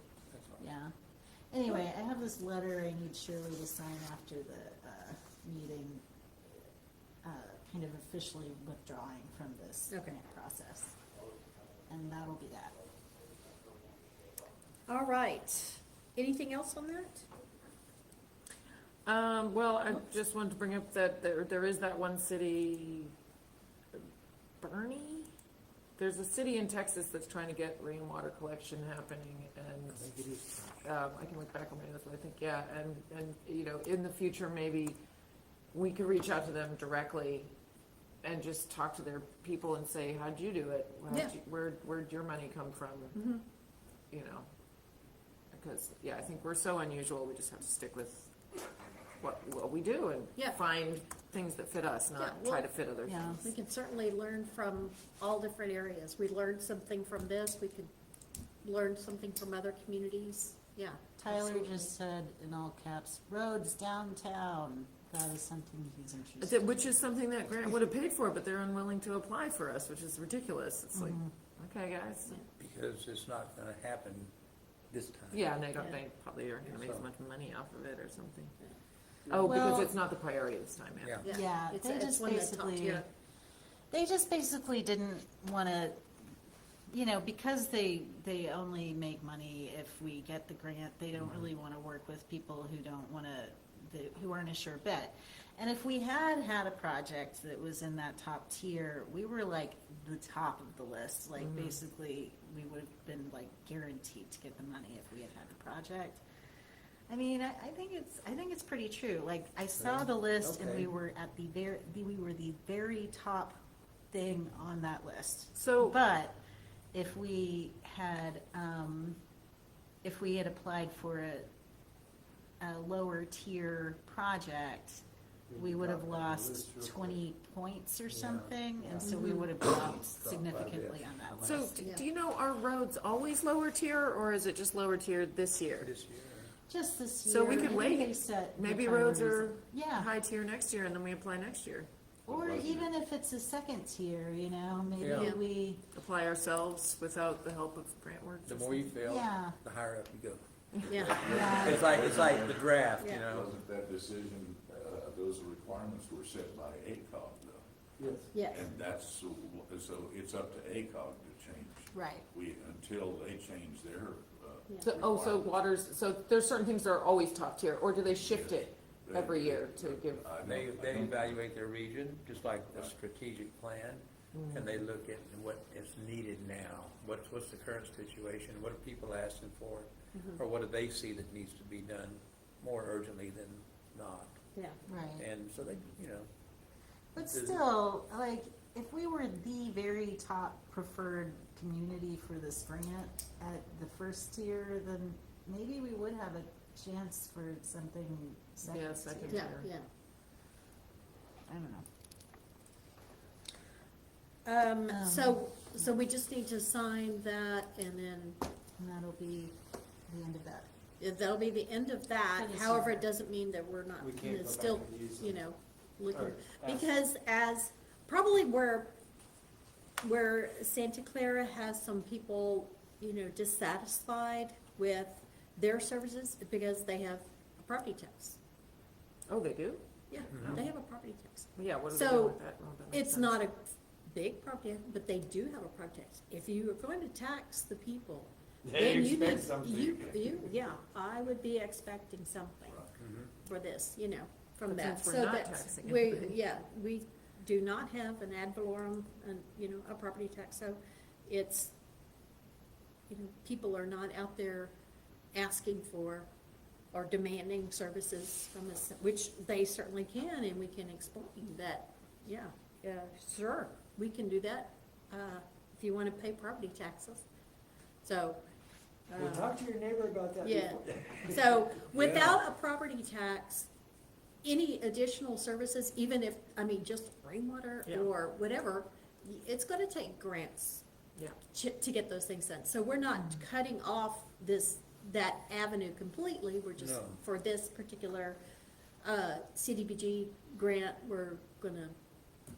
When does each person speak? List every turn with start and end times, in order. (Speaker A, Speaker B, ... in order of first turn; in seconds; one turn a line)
Speaker A: 0.3-0.6
Speaker B: 0.6-0.9
Speaker B: 1.5-6.0
Speaker B: 7.2-11.0
Speaker C: 9.9-10.2
Speaker B: 11.9-12.8
Speaker C: 14.9-17.3
Speaker D: 19.1-23.1
Speaker D: 24.6-25.3
Speaker D: 26.0-35.0
Speaker A: 29.9-30.7
Speaker D: 35.7-37.5
Speaker D: 38.2-43.2
Speaker C: 41.1-41.4
Speaker C: 43.1-43.4
Speaker D: 44.1-44.5
Speaker D: 45.5-48.7
Speaker D: 49.2-53.5
Speaker C: 52.2-52.7
Speaker B: 53.0-53.4
Speaker C: 53.4-57.9
Speaker C: 58.6-61.7
Speaker B: 61.2-66.9
Speaker D: 66.4-72.4
Speaker B: 70.9-71.3
Speaker A: 72.6-74.3
Speaker A: 74.9-75.5
Speaker D: 75.3-78.5
Speaker A: 76.7-77.0
Speaker D: 79.3-81.2
Speaker B: 79.4-79.9
Speaker A: 81.0-81.3
Speaker C: 81.2-83.1
Speaker B: 81.2-83.0
Speaker B: 83.9-86.1
Speaker B: 86.9-106.2
Speaker D: 101.4-101.8
Speaker B: 107.1-113.6
Speaker B: 114.1-116.4
Speaker D: 115.5-116.0
Speaker B: 116.9-119.2
Speaker B: 120.0-121.5
Speaker B: 122.6-131.8
Speaker E: 125.5-127.0
Speaker A: 128.1-129.1
Speaker C: 129.0-129.4
Speaker A: 129.8-131.7
Speaker D: 131.4-135.9
Speaker A: 135.8-136.6
Speaker B: 136.7-140.1
Speaker D: 137.2-141.9
Speaker B: 142.3-145.8
Speaker F: 142.3-142.9
Speaker A: 145.0-145.4
Speaker C: 145.1-145.4
Speaker D: 145.9-148.9
Speaker A: 148.5-153.5
Speaker B: 149.0-149.6
Speaker C: 150.9-151.2
Speaker F: 151.0-157.6
Speaker B: 151.2-152.0
Speaker C: 153.0-153.2
Speaker E: 158.0-158.3
Speaker C: 158.3-158.7
Speaker F: 158.5-165.5
Speaker B: 161.9-162.2
Speaker D: 164.8-170.2
Speaker F: 168.1-171.4
Speaker A: 170.4-184.4
Speaker D: 174.3-174.8
Speaker C: 180.1-180.4
Speaker C: 184.6-184.8
Speaker B: 184.9-185.3
Speaker A: 185.2-186.3
Speaker B: 187.1-199.5
Speaker A: 187.2-187.6
Speaker D: 198.6-199.7
Speaker C: 199.3-199.9
Speaker B: 201.5-201.9
Speaker C: 204.4-208.4
Speaker B: 204.9-205.9
Speaker B: 208.8-209.6
Speaker B: 210.1-210.7
Speaker C: 211.0-218.9
Speaker B: 212.3-213.1
Speaker E: 214.0-215.4
Speaker E: 216.1-216.9
Speaker C: 220.0-228.4
Speaker D: 229.3-229.8
Speaker C: 230.1-242.8
Speaker A: 230.3-230.7
Speaker D: 231.6-233.4
Speaker E: 238.7-240.5
Speaker A: 243.0-243.3
Speaker C: 243.4-251.7
Speaker D: 244.7-246.4
Speaker C: 253.1-254.7
Speaker C: 255.3-256.3
Speaker C: 256.9-267.2
Speaker C: 268.0-268.4
Speaker C: 269.1-269.6
Speaker E: 269.1-271.5
Speaker C: 270.4-273.7
Speaker A: 272.0-272.3
Speaker C: 274.4-280.9
Speaker C: 281.5-288.4
Speaker A: 286.8-287.2
Speaker C: 289.0-291.9